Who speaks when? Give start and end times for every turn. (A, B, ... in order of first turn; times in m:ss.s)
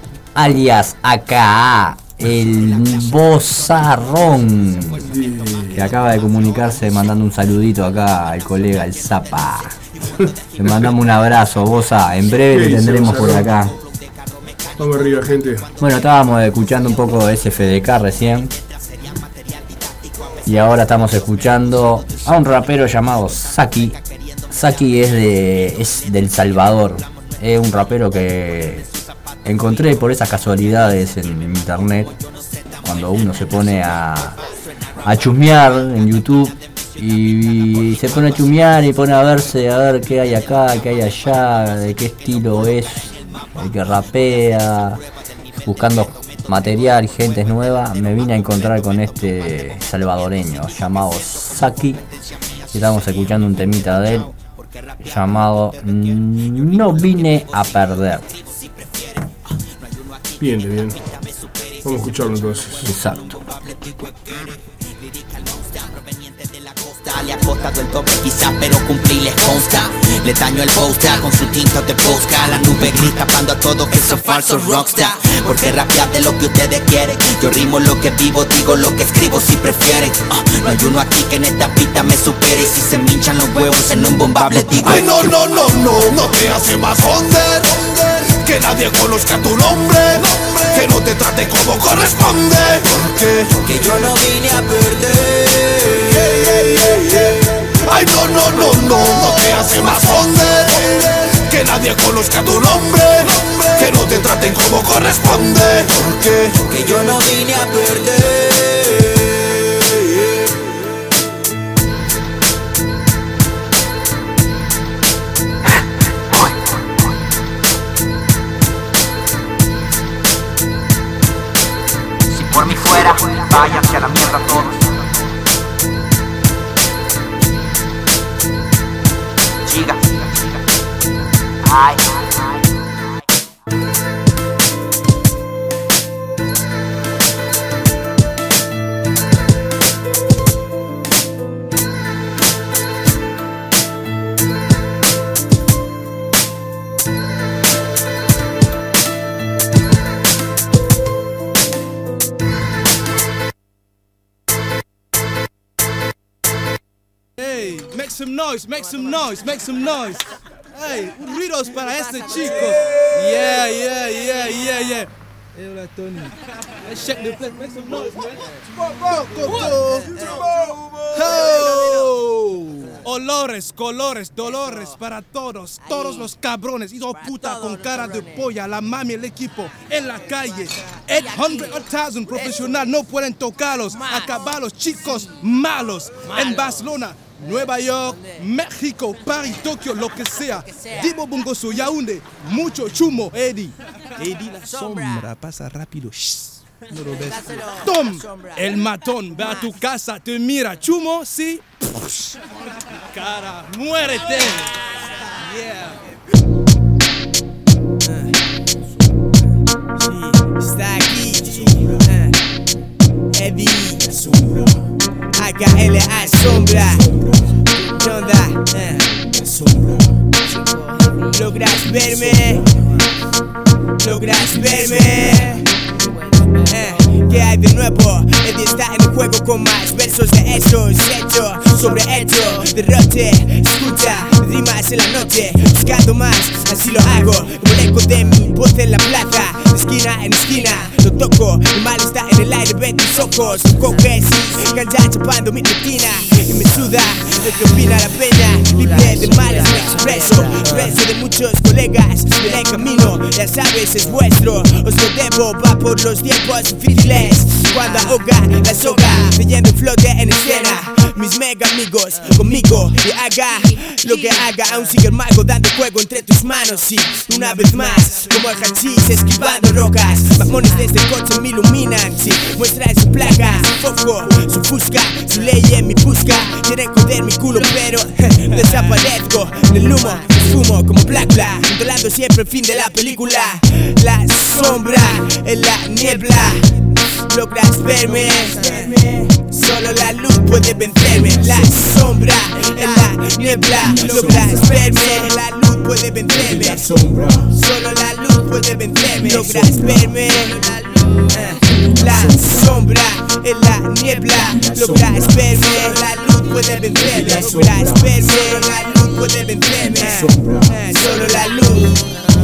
0:00.3-0:05.0 A
0:05.0-0:05.8 B
0:05.7-0:09.8 A
0:10.6-0:13.7 A
0:10.6-0:10.9 B
0:12.5-0:13.5 B
0:14.8-0:15.6 B
0:15.8-0:18.5 A
0:20.4-0:24.0 A
0:24.5-0:28.9 A
0:29.4-0:32.1 A
0:32.8-0:34.4 A
0:35.0-0:45.0 A
0:45.6-0:52.0 A
0:52.7-0:54.3 A
0:55.0-0:58.3 A
1:00.4-1:01.0 B
1:01.8-1:02.9 B
1:02.8-1:03.4 A
1:07.1-1:25.0 C
1:24.6-1:34.2 D
1:34.8-1:35.2 D
1:35.8-1:46.5 D
2:02.4-2:04.9 C
2:09.7-2:10.2 C
2:11.7-2:12.1 C
2:37.4-3:21.6 E
2:41.9-2:42.6 F
2:49.1-2:49.4 F
2:50.1-2:50.6 F
2:51.2-2:52.1 F
2:54.6-2:54.9 F
2:55.8-2:56.2 F
2:57.1-2:58.5 F
3:04.0-3:04.3 F
3:14.6-3:15.3 F
3:17.1-3:18.9 F
3:23.1-3:24.8 E
3:25.4-3:25.9 E
3:30.6-3:32.3 F
3:33.4-3:34.0 F
3:35.4-3:37.0 F
3:38.0-3:38.8 F
3:40.7-3:42.6 F
3:44.0-3:45.6 F
3:46.6-4:46.6 F
4:47.3-4:56.9 F
4:57.5-5:00.8 F
5:01.3-5:12.1 F